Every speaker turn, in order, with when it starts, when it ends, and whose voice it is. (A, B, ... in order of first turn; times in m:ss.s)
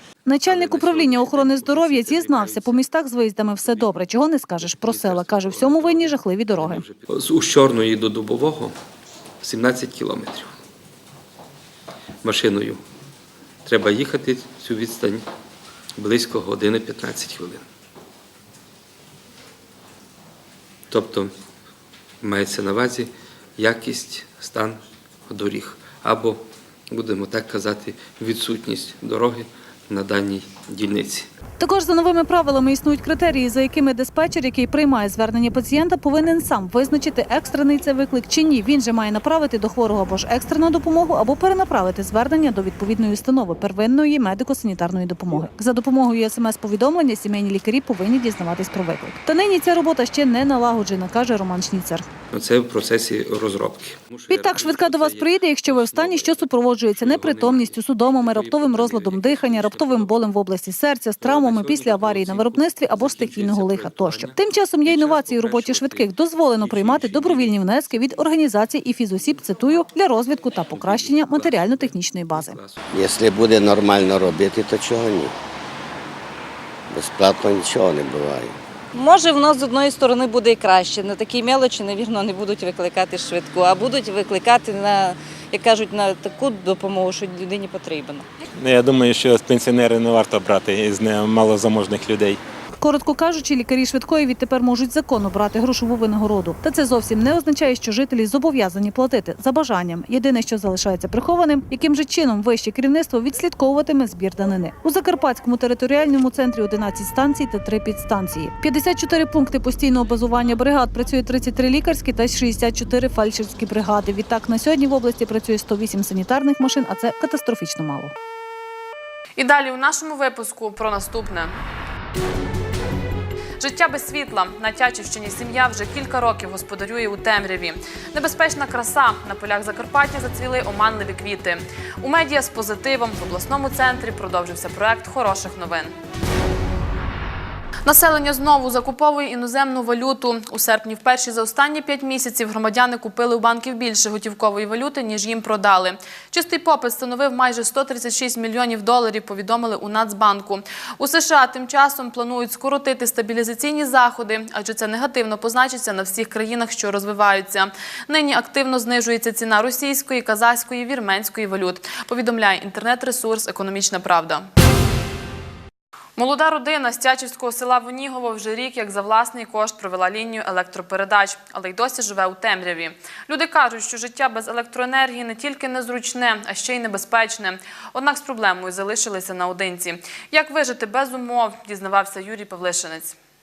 0:00.2-0:06.8 A
0:00.4-0:02.9 B
0:03.5-0:04.0 B
0:04.6-0:08.7 B
0:09.4-0:10.5 B
0:12.2-0:12.8 B
0:13.6-0:15.2 B
0:16.0-0:17.6 B
0:20.9-0:21.3 B
0:22.2-0:31.3 B
0:31.6-0:52.1 A
0:52.3-1:00.3 B
0:54.3-1:12.6 A
1:01.2-1:07.7 B
1:10.5-1:12.8 B
1:13.0-1:15.3 C
1:16.9-1:18.5 C
1:18.9-1:28.2 D
1:28.6-1:32.4 E
1:32.8-1:58.1 A
1:59.4-2:01.5 F
2:03.6-2:16.0 F
2:17.8-2:44.4 F
2:46.2-3:03.2 F